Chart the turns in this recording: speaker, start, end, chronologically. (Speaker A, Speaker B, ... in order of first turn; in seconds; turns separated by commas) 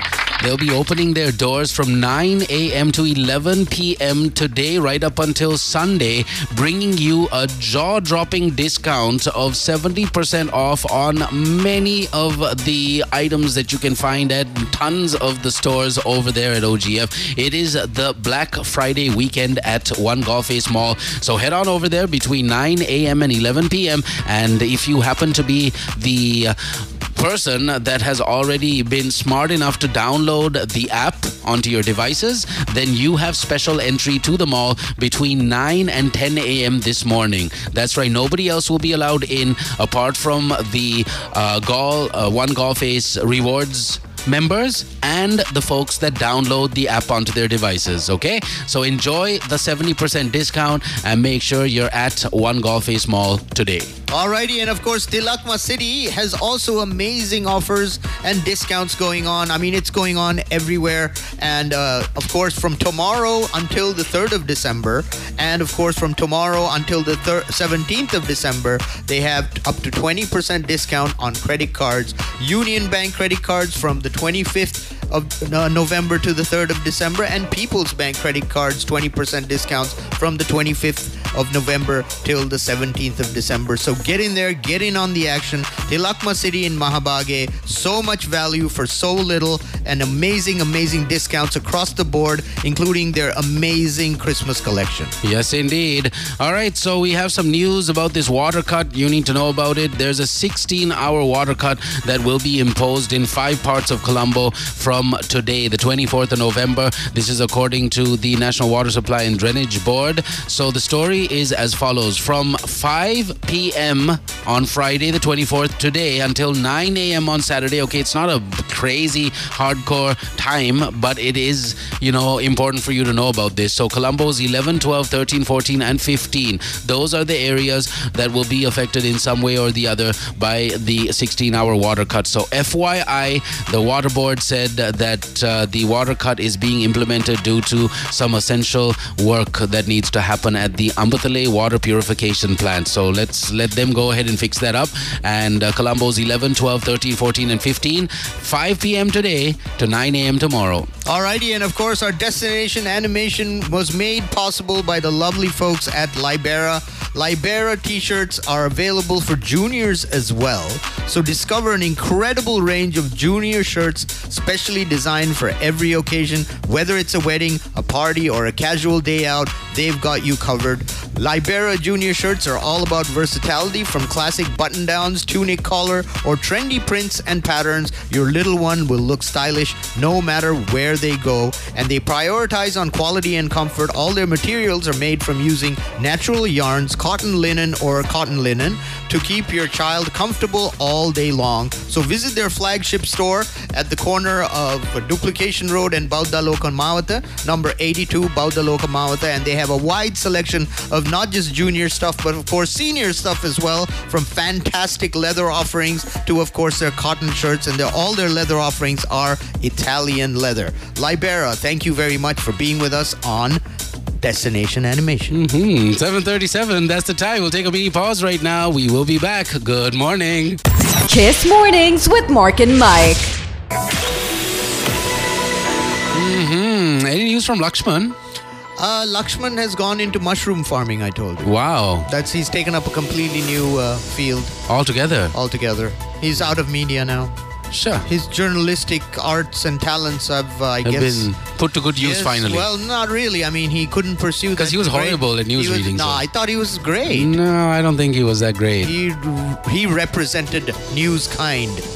Speaker A: 0.4-53.9, Speaker B: 54.1-95.1, Speaker A: 95.2-150.9, Speaker B: 151.1-213.6, Speaker B: 214.2-215.3, Speaker A: 215.3-220.6, Speaker C: 221.0-223.3, Speaker A: 226.1-228.1, Speaker B: 228.8-231.5, Speaker A: 231.4-232.1, Speaker B: 232.1-234.6, Speaker A: 234.7-235.3, Speaker B: 235.3-237.3, Speaker A: 237.7-238.1, Speaker B: 238.1-241.3, Speaker A: 240.8-242.7, Speaker B: 241.9-247.4, Speaker A: 244.6-246.2, Speaker A: 247.1-248.9, Speaker B: 248.8-251.8